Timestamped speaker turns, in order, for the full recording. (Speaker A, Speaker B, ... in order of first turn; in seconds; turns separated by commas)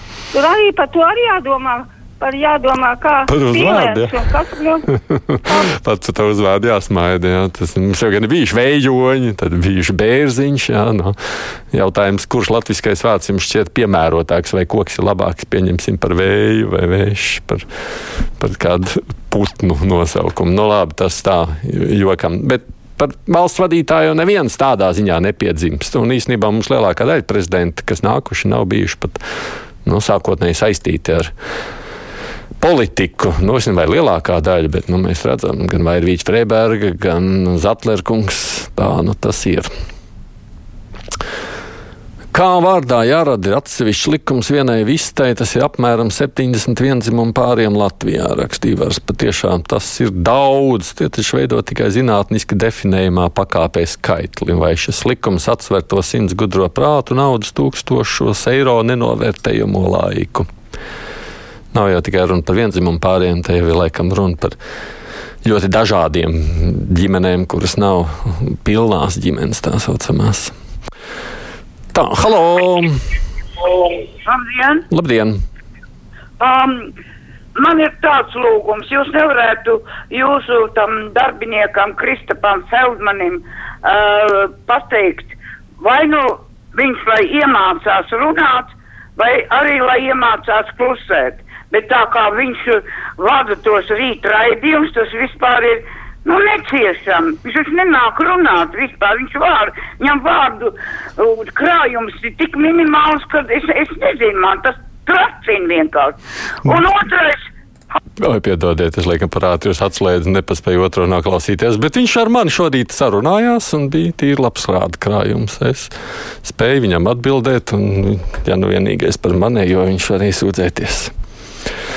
Speaker A: 0.3-4.8, Speaker B: 3.3-4.2, Speaker B: 4.9-11.2, Speaker B: 11.7-17.6, Speaker B: 18.4-29.2, Speaker B: 29.8-31.3, Speaker B: 32.6-39.7, Speaker B: 42.3-60.5, Speaker B: 61.7-64.6, Speaker B: 65.4-70.5, Speaker B: 71.9-73.0, Speaker C: 74.2-74.8, Speaker B: 74.9-75.4, Speaker C: 76.4-76.8, Speaker C: 77.6-88.7, Speaker C: 89.2-100.7, Speaker C: 101.2-106.1, Speaker C: 106.7-107.4, Speaker B: 108.2-115.9, Speaker B: 116.4-121.1